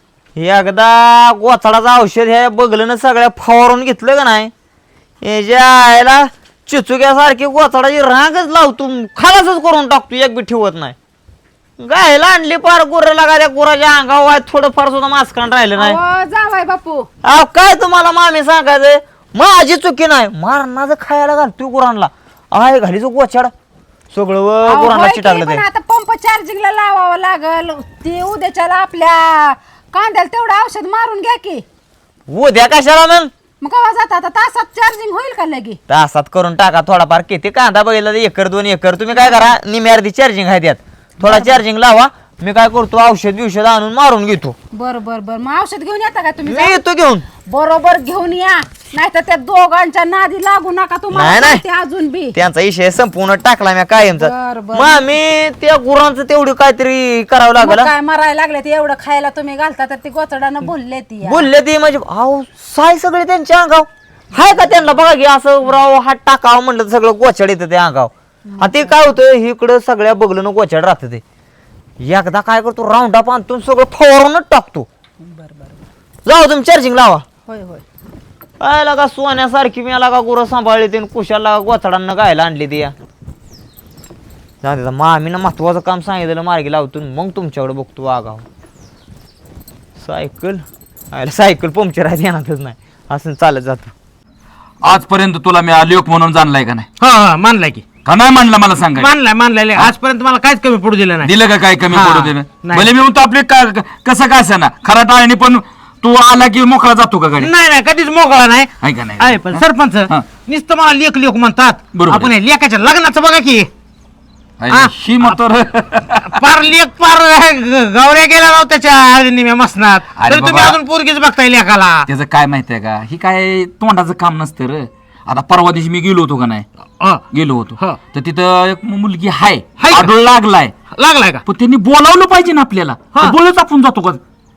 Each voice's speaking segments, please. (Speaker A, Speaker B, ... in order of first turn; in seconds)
Speaker A: 0.3-4.5, 5.2-10.9, 11.8-16.0, 17.2-23.5, 24.1-25.6, 32.3-33.3, 35.9-44.5, 46.5-47.2, 51.1-51.6, 52.3-57.9, 61.2-71.2, 72.0-74.9, 76.2-77.2, 78.6-82.9, 84.6-88.5, 90.0-93.9
Speaker B: 15.8-17.1, 24.7-31.6, 33.6-35.8, 41.2-41.5, 44.7-46.8, 47.5-52.3, 54.0-55.0, 57.6-61.5, 68.5-68.9, 75.2-75.8, 77.5-77.8
Speaker C: 94.8-96.9, 98.0-99.1, 101.2-107.5, 108.8-110.2, 111.9-112.3, 114.6-116.4, 120.1-120.8, 122.1-126.7, 127.3-130.8, 131.4-134.2
Speaker D: 97.0-97.8, 99.0-101.3, 101.9-102.9, 107.4-113.7, 114.7-115.3, 116.2-122.1, 129.8-130.1, 130.9-131.4